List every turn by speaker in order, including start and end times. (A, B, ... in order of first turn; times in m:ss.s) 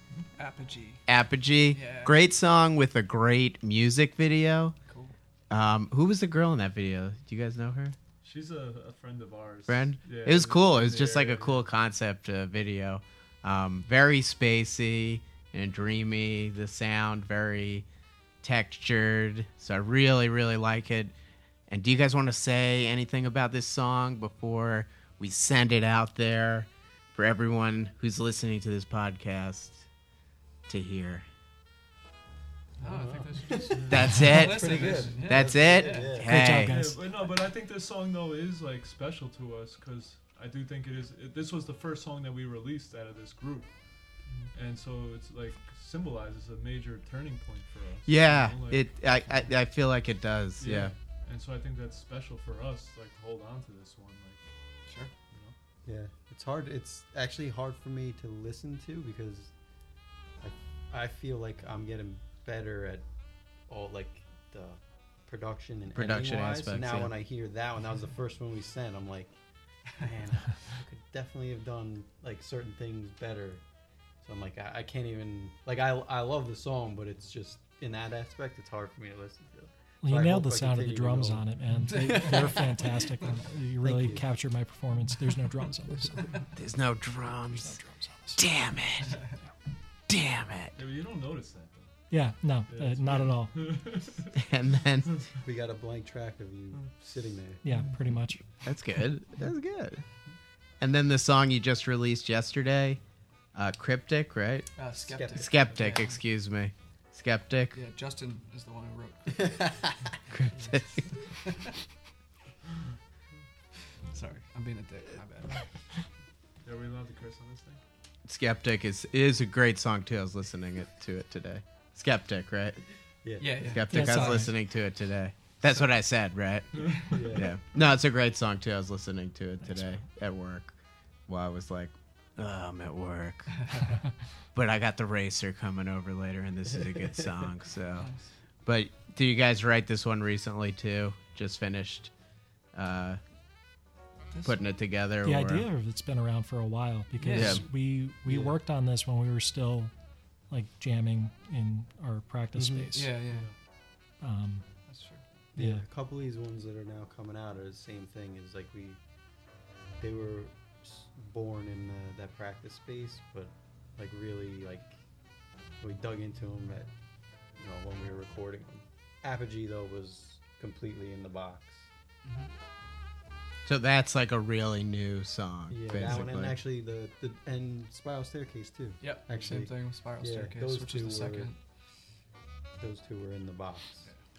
0:00.4-0:01.1 A
0:01.1-0:04.8 B
0:01.7-0:02.2 A
0:04.9-0:05.2 A
0:05.5-0:08.0 B
0:08.2-0:11.7 C
0:09.7-0:17.9 B
0:18.4-0:21.1 B
0:21.7-0:29.8 B
0:30.7-0:31.2 B
0:32.8-0:36.6 D
0:32.8-0:36.1 A
0:33.6-0:34.2 C
0:33.9-0:36.7 B
0:36.2-0:37.0 E
0:36.6-0:49.6 C
0:48.1-0:50.9 B
0:50.6-0:55.6 C
0:54.9-0:55.1 A
0:55.8-0:59.5 D
1:00.4-1:03.1 D
1:03.7-1:09.3 D
1:05.9-1:07.1 B
1:09.9-1:13.6 D
1:14.2-1:22.6 D
1:20.0-1:26.5 E
1:21.8-1:23.4 A
1:23.8-1:24.2 D
1:26.6-1:27.8 B
1:27.5-1:28.4 E
1:28.4-1:29.2 B
1:30.1-1:30.8 B
1:30.8-1:32.0 C
1:32.1-1:33.9 E
1:32.6-1:34.4 C
1:34.4-1:35.1 B
1:35.4-1:37.6 D
1:37.6-1:38.7 E
1:38.6-1:40.0 B
1:40.8-1:43.0 B
1:43.5-1:44.7 B
1:44.8-1:46.2 A
1:45.0-1:45.5 D
1:45.3-1:47.8 B
1:47.7-1:50.0 A
1:49.4-1:50.0 D
1:50.3-1:51.1 B
1:54.1-1:55.7 A
1:56.6-1:57.8 C
1:58.3-2:02.8 B
2:03.2-2:04.0 D
2:03.4-2:04.5 A
2:03.5-2:13.7 B
2:03.9-2:04.5 E
2:06.7-2:07.1 C
2:07.1-2:07.5 D
2:14.5-2:18.1 B
2:18.0-2:18.3 A
2:18.6-2:22.1 B
2:22.7-2:23.2 B
2:24.3-2:24.6 A
2:24.4-2:25.7 B
2:25.2-2:29.9 E
2:27.2-2:27.6 A
2:27.3-2:27.6 B
2:28.3-2:28.6 D
2:30.5-2:33.2 E
2:32.5-2:32.9 D
2:32.9-2:33.5 A
2:33.3-2:33.5 C
2:34.2-2:34.7 E
2:34.9-2:35.2 A
2:35.5-2:39.0 D
2:35.6-2:35.8 E
2:40.0-2:45.0 D
2:45.8-2:46.9 D
2:47.6-2:51.8 D
2:52.2-2:52.5 A
2:53.7-2:56.6 B
2:55.7-3:01.5 D
2:59.0-3:01.6 A
3:02.8-3:04.1 D